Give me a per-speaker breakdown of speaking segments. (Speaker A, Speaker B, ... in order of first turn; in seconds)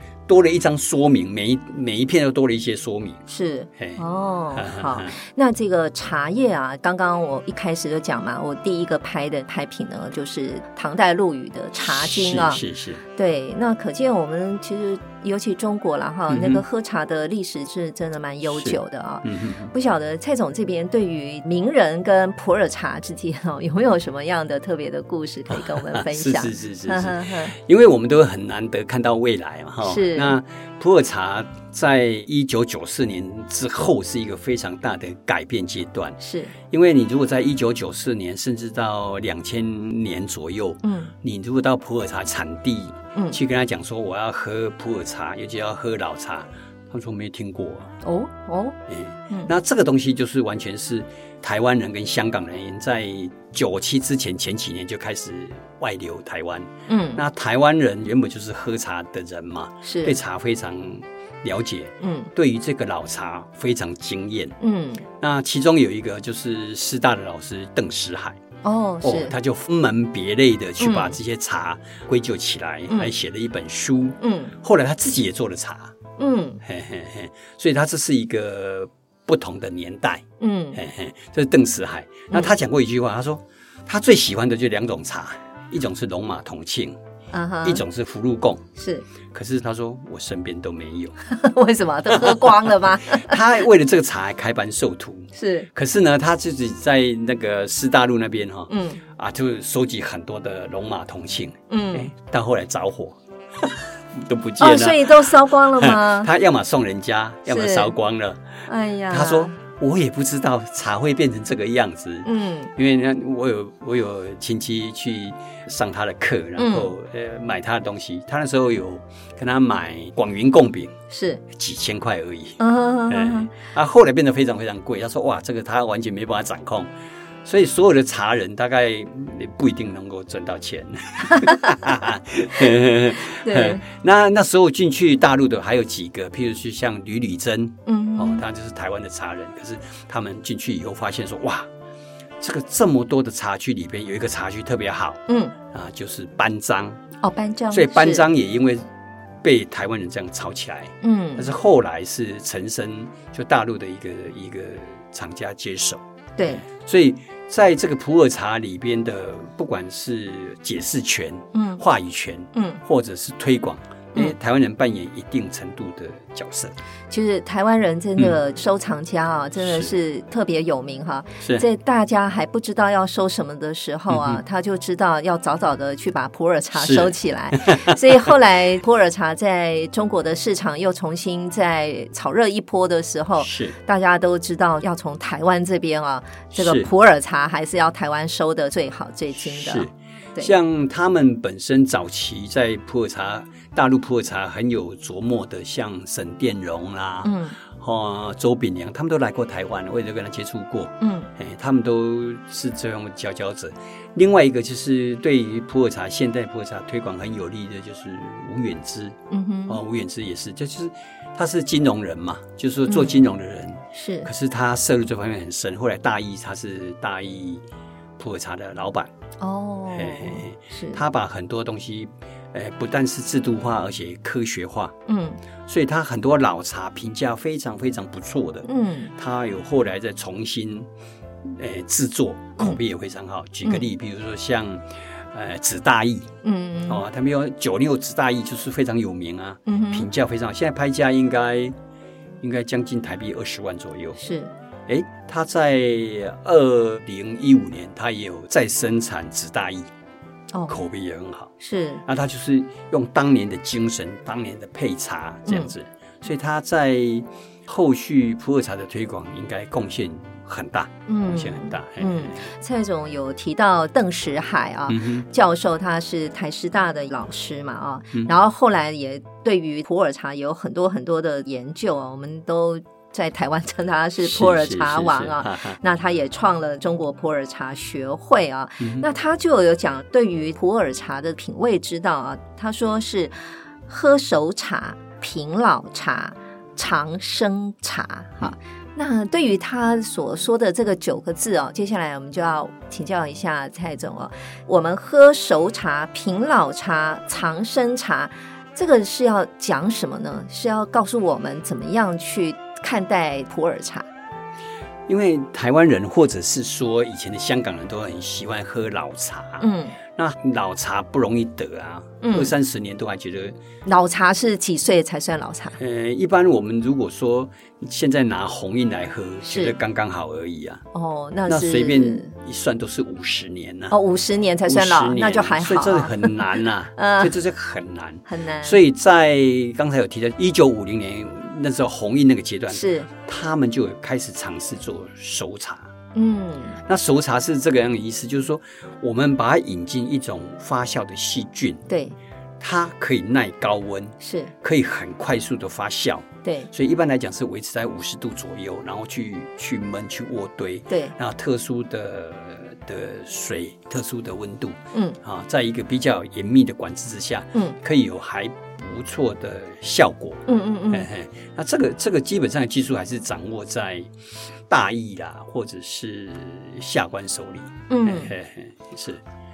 Speaker A: 0.3-3.2, 4.5-5.2, 11.8-13.0, 16.3-16.6, 18.5-19.7, 25.5-36.2, 36.7-47.9, 48.9-64.6, 65.2-68.4, 69.0-75.9, 76.6-87.0, 87.6-88.7, 89.3-91.2, 92.1-108.5, 109.1-121.0, 121.5-126.9, 127.4-141.7, 142.4-147.0, 147.7-148.8, 149.4-156.0, 156.6-166.7, 169.6-169.9, 174.1-174.4, 176.8-178.3, 183.4-183.7, 186.5-186.9, 189.4-209.2, 209.7-217.6, 218.2-219.1, 219.9-224.9, 225.7-230.9, 231.4-236.3, 236.9-241.7, 242.4-244.2, 244.9-249.9, 250.7-251.5, 252.0-262.5, 264.9-265.2, 274.2-275.8, 278.8-279.1, 305.1-313.6, 315.8-320.8, 321.5-323.9, 324.6-335.9, 336.9-341.9, 342.6-364.1, 364.7-369.2
Speaker B: 3.3-12.6, 13.1-27.5, 29.8-30.4, 36.2-36.5, 40.8-41.1, 48.0-48.8, 56.9-57.2, 59.8-60.2, 62.0-62.3, 64.6-65.0, 68.6-69.3, 70.8-71.2, 74.2-74.5, 76.2-76.6, 80.4-80.8, 87.3-87.8, 88.8-89.0, 91.2-93.4, 95.3-95.7, 98.7-99.0, 101.7-102.1, 104.6-106.3, 107.5-107.9, 108.7-109.5, 112.2-112.7, 116.6-116.9, 121.1-121.4, 122.6-123.5, 131.2-131.7, 133.4-133.8, 137.8-138.4, 145.3-145.5, 147.2-148.2, 151.0-151.5, 156.4-156.6, 161.5-161.8, 162.5-162.8, 167.1-190.5, 197.2-197.6, 201.0-201.3, 209.3-209.8, 212.9-213.2, 213.9-214.3, 219.4-221.0, 225.1-225.4, 228.6-229.1, 236.4-237.0, 239.7-240.1, 244.2-244.5, 251.6-252.0, 255.5-255.7, 261.1-283.3, 283.9-304.1, 309.6-309.9, 312.2-312.5, 313.9-315.8, 319.4-319.7, 320.9-322.3, 323.9-327.3, 328.3-328.8, 332.7-333.1, 336.1-336.8, 341.9-342.1, 344.2-344.5, 346.4-346.7, 354.9-355.2, 360.5-361.1, 367.9-368.3